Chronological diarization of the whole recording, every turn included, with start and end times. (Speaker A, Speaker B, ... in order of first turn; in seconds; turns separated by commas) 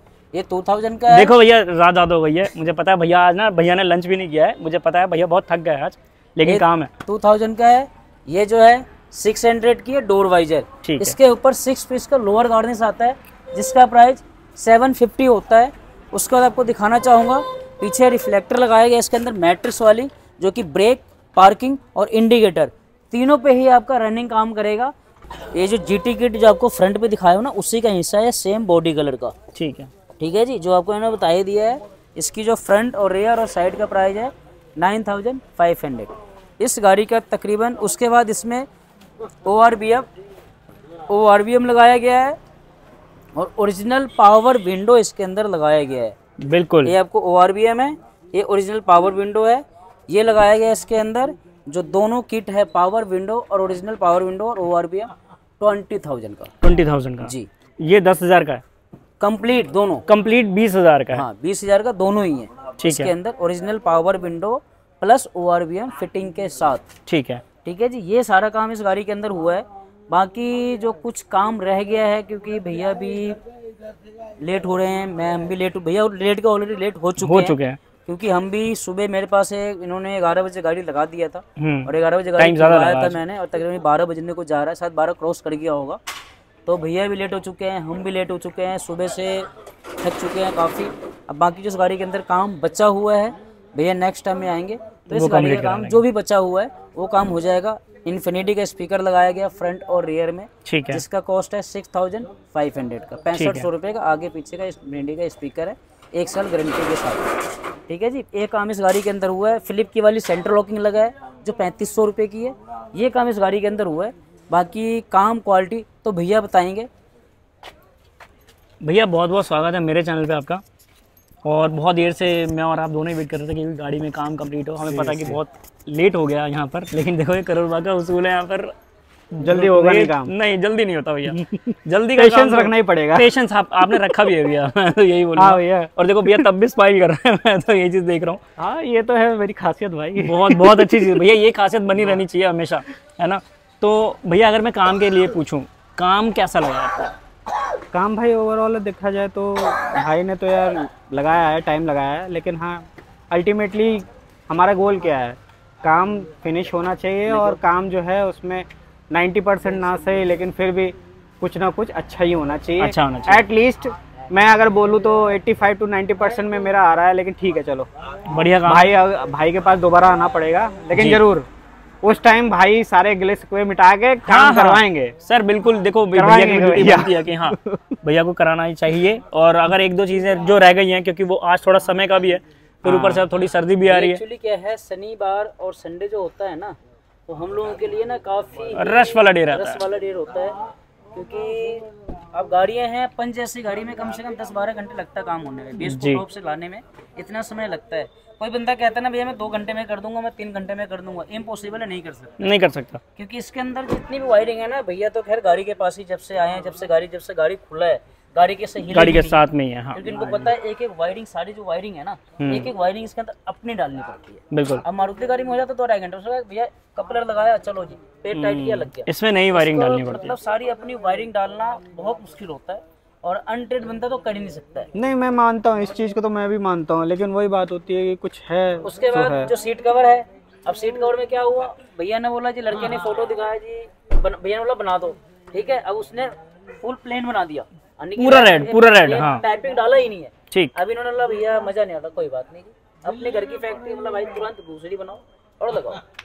Speaker A: 0.3-1.4, Speaker B: 1.1-6.9, Speaker A: 6.5-24.9, Speaker B: 10.8-11.2, Speaker A: 25.5-29.3, Speaker B: 29.6-29.9, Speaker A: 30.2-38.7, Speaker A: 39.5-40.1, Speaker A: 41.1-42.4, Speaker A: 43.4-46.1, Speaker B: 46.4-46.9, Speaker A: 46.9-56.5, Speaker B: 56.6-58.6, Speaker A: 57.2-57.5, Speaker A: 59.2-60.1, Speaker B: 60.1-61.2, Speaker A: 61.1-66.9, Speaker B: 62.8-63.1, Speaker B: 67.1-67.4, Speaker A: 67.6-73.4, Speaker A: 74.4-86.0, Speaker B: 77.2-77.8, Speaker B: 81.6-83.2, Speaker A: 86.7-89.5, Speaker A: 90.0-107.3, Speaker B: 95.1-96.0, Speaker B: 100.7-101.0, Speaker B: 103.3-103.7, Speaker A: 107.9-116.9, Speaker B: 118.8-120.6, Speaker B: 121.5-128.7, Speaker C: 124.8-125.4, Speaker B: 129.3-138.4, Speaker C: 129.4-130.3, Speaker C: 132.2-133.3, Speaker C: 135.4-135.9, Speaker C: 138.6-141.1, Speaker B: 140.2-147.1, Speaker C: 147.9-167.9, Speaker B: 162.8-163.4, Speaker B: 168.3-168.9, Speaker C: 168.7-171.5, Speaker B: 170.9-171.2, Speaker C: 172.0-175.2, Speaker B: 174.3-184.2, Speaker C: 176.1-177.8, Speaker C: 182.8-183.3, Speaker A: 183.9-186.8, Speaker A: 187.3-190.6, Speaker B: 188.8-189.8, Speaker A: 191.1-202.6, Speaker B: 195.8-196.2, Speaker B: 202.4-203.0, Speaker A: 203.2-209.4, Speaker B: 208.9-210.3, Speaker A: 209.9-224.9, Speaker B: 212.4-212.7, Speaker B: 214.5-214.8, Speaker B: 218.3-220.3, Speaker C: 224.9-229.5, Speaker A: 228.8-246.0, Speaker B: 238.2-239.4